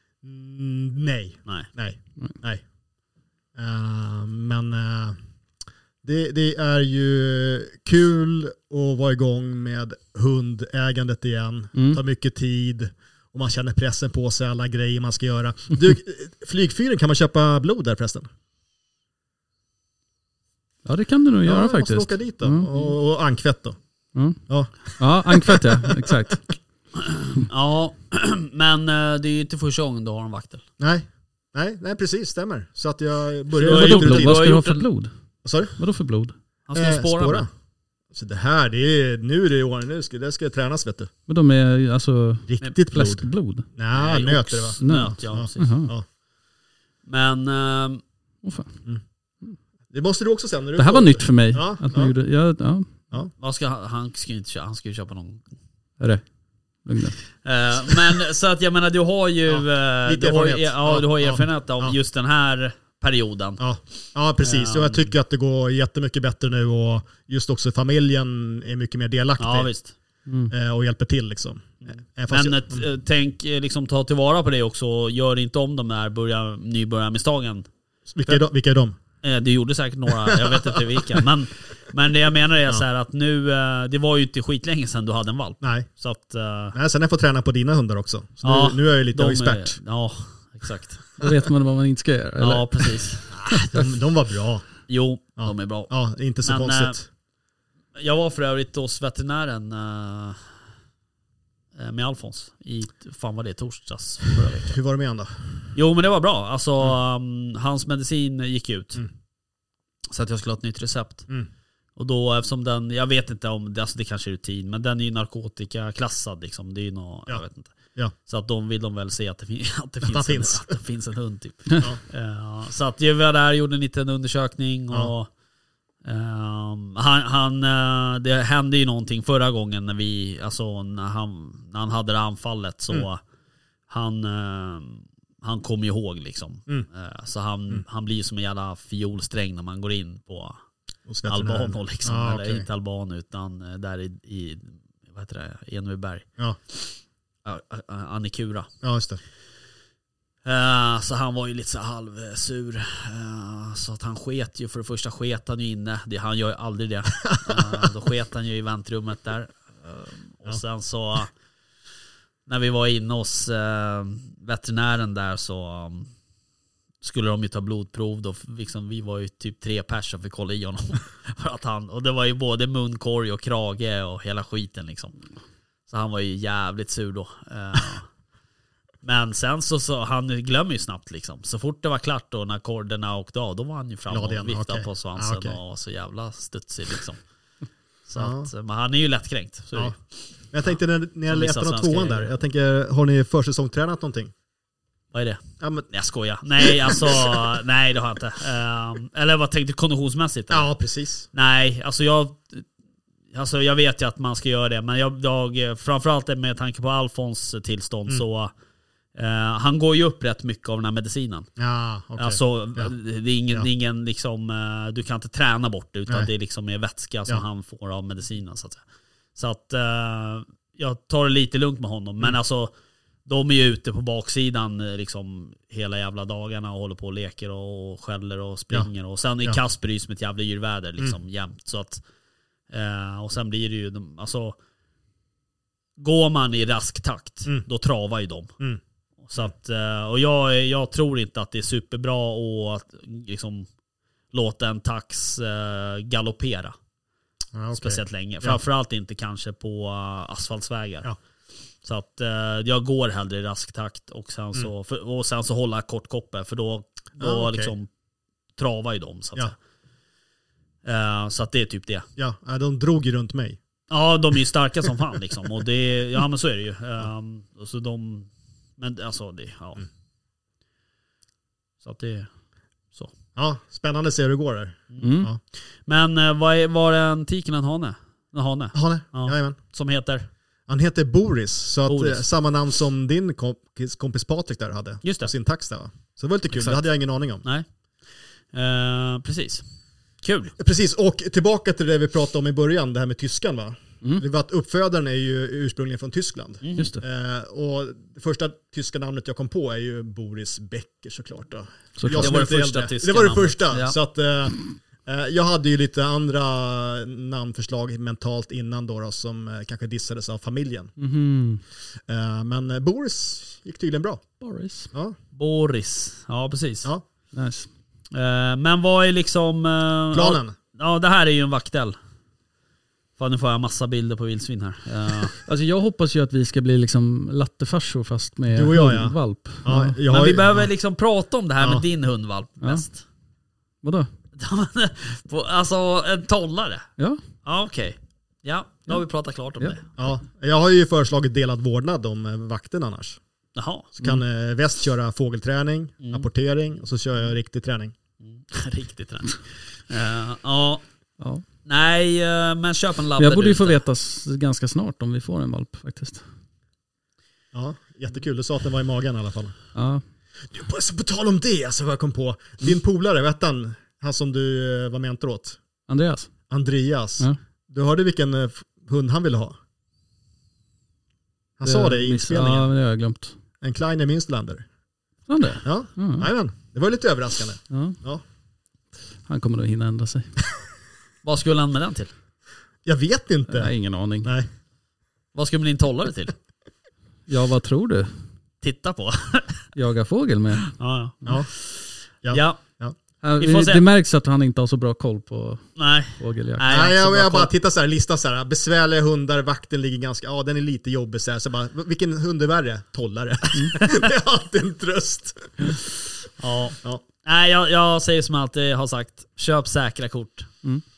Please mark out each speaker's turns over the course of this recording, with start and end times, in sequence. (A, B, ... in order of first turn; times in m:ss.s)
0:00.2-0:02.6 A
0:03.6-0:05.2 A
0:06.0-0:18.3 A
0:11.8-0:12.0 B
0:20.8-0:22.7 B
0:21.5-0:23.8 A
0:24.2-0:24.4 B
0:24.5-0:26.1 A
0:25.0-0:26.4 B
0:27.0-0:30.6 C
0:30.8-0:34.4 A
0:33.6-0:34.8 C
0:33.6-0:35.1 B
0:35.4-0:35.8 A
0:35.8-0:36.4 B
0:36.7-0:37.5 C
0:36.7-0:37.5 A
0:38.1-0:41.1 A
0:41.3-0:43.7 B
0:42.5-0:46.0 A
0:43.9-0:45.7 C
0:44.8-0:45.9 B
0:47.1-0:48.0 C
0:48.4-0:48.8 B
0:49.9-0:52.1 A
0:50.8-0:52.9 B
0:53.4-0:55.5 C
0:56.8-0:57.2 B
0:57.4-1:03.6 C
0:59.5-1:02.0 A
1:03.6-1:09.7 A
1:04.4-1:05.1 C
1:09.4-1:10.0 C
1:10.3-1:10.5 B
1:10.5-1:12.8 A
1:11.9-1:17.7 C
1:18.1-1:19.0 A
1:19.2-1:26.8 C
1:20.2-1:21.2 A
1:25.6-1:25.9 A
1:26.7-1:29.8 A
1:28.4-1:31.1 C
1:31.2-1:33.1 B
1:32.4-1:33.4 C
1:33.4-1:34.7 A
1:34.9-1:35.9 C
1:35.4-1:37.0 A
1:36.4-1:37.0 C
1:38.0-1:40.6 C
1:41.8-1:44.8 C
1:44.6-1:45.7 A
1:45.7-1:49.0 C
1:50.1-1:51.3 C
1:52.0-2:05.3 C
2:00.0-2:00.8 A
2:06.0-2:13.2 C
2:13.9-2:20.6 C
2:21.1-2:22.7 A
2:21.3-2:26.2 C
2:27.4-2:28.7 C
2:28.8-2:29.2 A
2:30.4-2:41.3 C
2:37.2-2:37.9 A
2:42.5-2:46.1 C
2:47.0-2:55.2 C
2:55.9-2:58.1 C
2:59.0-3:07.2 C
3:04.1-3:05.6 A
3:08.1-3:10.0 C
3:08.2-3:08.5 A
3:10.5-3:14.3 A
3:11.3-3:12.3 C
3:15.1-3:15.4 C
3:15.6-3:15.9 A
3:15.9-3:20.7 C
3:16.6-3:17.4 A
3:20.5-3:21.3 A
3:21.3-3:22.6 C
3:23.3-3:28.5 C
3:29.2-3:31.5 C
3:31.6-3:32.9 A
3:32.2-3:38.8 C
3:39.4-3:42.7 C
3:43.3-3:52.0 C
3:52.7-3:54.6 C
3:56.0-3:58.5 C
3:59.2-4:03.7 C
4:04.3-4:06.8 C
4:07.5-4:08.6 A
4:07.8-4:11.1 C
4:11.8-4:17.9 C
4:17.2-4:17.7 A
4:18.6-4:19.6 C
4:20.8-4:22.0 C
4:22.2-4:23.6 A
4:23.9-4:29.8 C
4:31.8-4:32.3 C
4:33.4-4:35.4 A
4:35.0-4:35.3 B
4:35.8-4:40.3 C
4:38.7-4:39.6 A
4:40.7-4:47.4 A
4:41.9-4:42.2 C
4:45.0-4:45.3 C
4:48.5-4:49.6 C
4:50.2-4:50.6 C
4:50.6-5:10.9 A
4:56.6-4:56.9 C
4:56.8-4:57.0 B
5:02.0-5:02.3 B
5:02.2-5:03.9 C
5:11.0-5:11.6 B
5:12.1-5:14.2 A
5:14.4-5:14.9 B
5:15.3-5:16.9 C
5:17.3-5:17.7 B
5:18.1-5:22.0 C
5:20.1-5:20.6 A
5:23.2-5:25.4 C
5:25.4-5:30.0 B
5:28.5-5:30.7 A
5:30.1-5:33.0 C
5:33.8-5:34.1 B
5:34.4-5:36.9 C
5:37.4-5:39.9 C
5:40.0-5:43.2 A
5:43.6-5:44.0 C
5:44.0-5:48.0 A
5:46.0-5:46.3 C
5:48.2-5:50.8 C
5:51.6-5:53.8 C
5:53.2-5:56.2 B
5:57.5-5:59.6 A
5:59.8-6:00.0 B
6:00.5-6:05.6 A
6:05.9-6:06.3 B
6:06.5-6:09.6 A
6:11.6-6:12.7 A
6:11.6-6:13.4 B
6:13.6-6:14.6 A
6:15.3-6:16.3 B
6:15.6-6:18.2 A
6:17.7-6:18.0 B
6:19.3-6:20.3 B
6:21.2-6:22.1 C
6:22.8-6:24.5 A
6:23.5-6:24.3 B
6:25.4-6:26.4 C
6:27.3-6:28.1 B
6:28.6-6:29.7 C
6:29.7-6:30.7 B
6:30.7-6:32.6 C
6:32.2-6:33.0 A
6:33.2-6:36.7 B
6:33.4-6:33.8 C
6:35.8-6:37.5 C
6:36.7-6:46.0 A
6:46.4-6:50.6 C